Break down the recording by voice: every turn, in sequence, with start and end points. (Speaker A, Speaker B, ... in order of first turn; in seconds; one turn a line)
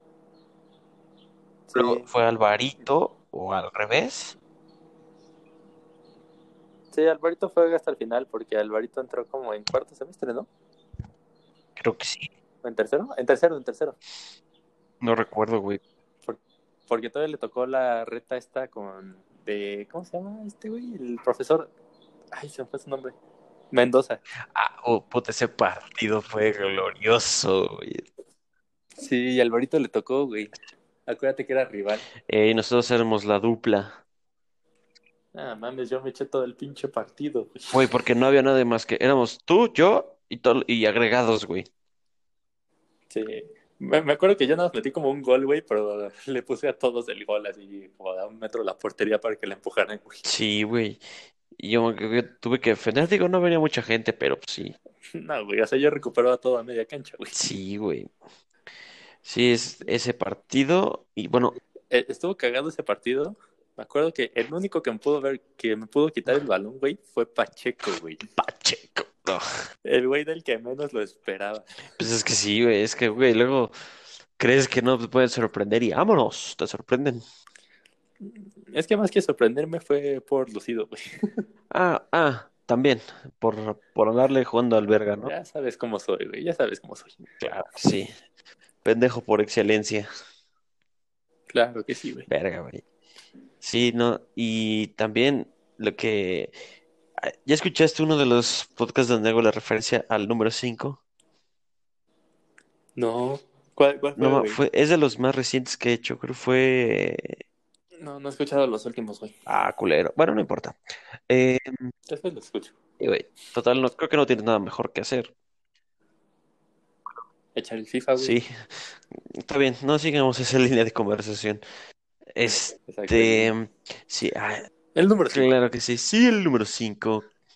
Speaker A: 1.7-2.1
Speaker B: 1.7-4.4
Speaker A: 6.9-10.5
Speaker B: 11.8-12.3
Speaker A: 12.6-14.0
Speaker B: 15.0-15.8
Speaker A: 16.3-21.7
Speaker A: 22.3-23.2
Speaker A: 23.7-24.2
Speaker B: 24.5-28.1
Speaker A: 29.0-30.5
Speaker A: 31.1-32.1
Speaker B: 32.3-34.0
Speaker A: 35.3-37.8
Speaker B: 37.7-41.7
Speaker A: 43.1-50.2
Speaker B: 50.2-51.0
Speaker B: 51.6-54.8
Speaker A: 55.1-57.4
Speaker B: 57.3-58.1
Speaker B: 59.2-61.6
Speaker A: 61.9-68.2
Speaker B: 68.4-69.5
Speaker A: 69.8-72.0
Speaker B: 72.0-73.8
Speaker B: 74.4-77.2
Speaker A: 78.2-81.5
Speaker B: 81.7-85.3
Speaker A: 85.2-87.2
Speaker B: 87.4-88.1
Speaker B: 88.8-90.1
Speaker A: 91.5-92.3
Speaker B: 92.3-92.8
Speaker B: 93.6-96.6
Speaker B: 97.2-101.0
Speaker A: 103.0-104.6
Speaker B: 104.2-107.4
Speaker A: 108.0-109.3
Speaker B: 109.5-111.9
Speaker A: 112.1-112.7
Speaker B: 113.0-115.3
Speaker A: 117.5-118.4
Speaker B: 118.2-121.6
Speaker B: 122.3-124.7
Speaker A: 122.4-123.5
Speaker A: 125.0-125.5
Speaker B: 125.3-127.3